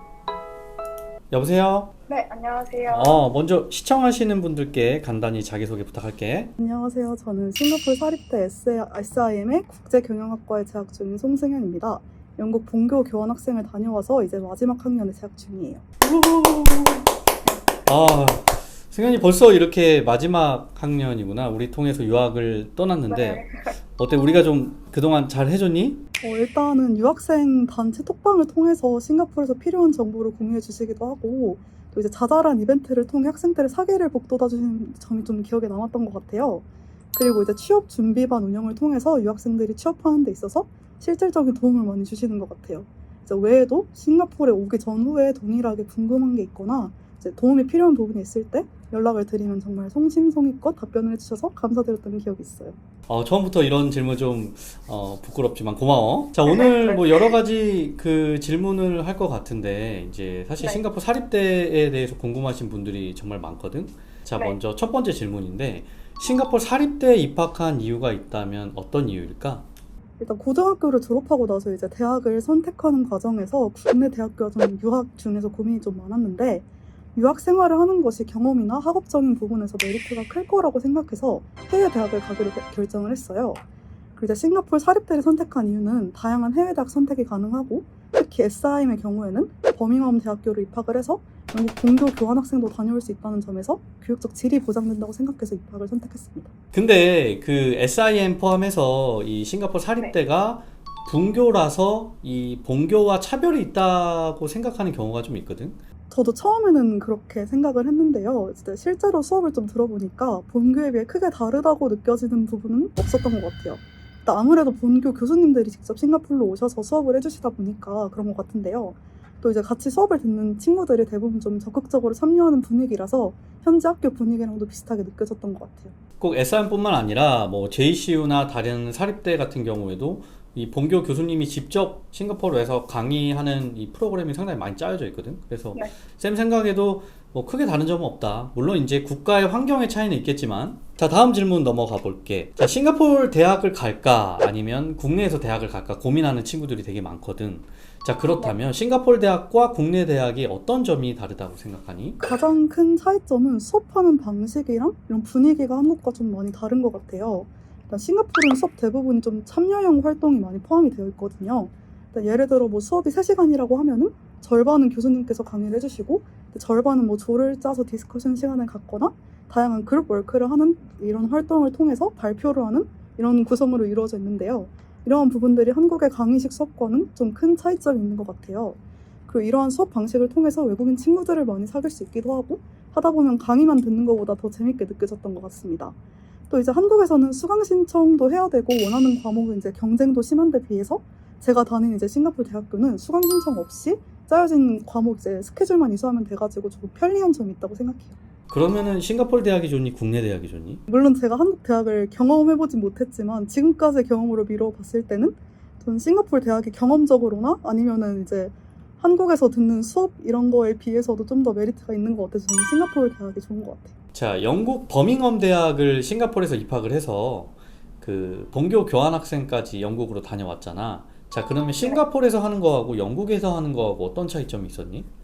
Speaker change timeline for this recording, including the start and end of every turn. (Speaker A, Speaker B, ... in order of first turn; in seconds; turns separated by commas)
Speaker A: 1.3-1.9, Speaker B: 2.1-3.2, Speaker A: 2.9-6.5, Speaker C: 6.6-15.8, Speaker A: 16.0-17.1, Speaker A: 17.9-26.0, Speaker B: 23.1-23.7, Speaker C: 26.2-52.8, Speaker A: 53.1-69.7, Speaker B: 56.5-57.1, Speaker C: 70.2-83.6, Speaker C: 84.2-96.5, Speaker A: 96.7-105.8, Speaker C: 106.1-125.9, Speaker A: 126.2-152.2, Speaker C: 152.2-185.9, Speaker C: 186.5-198.2, Speaker A: 198.5-200.8, Speaker C: 200.9-213.9, Speaker A: 214.1-225.1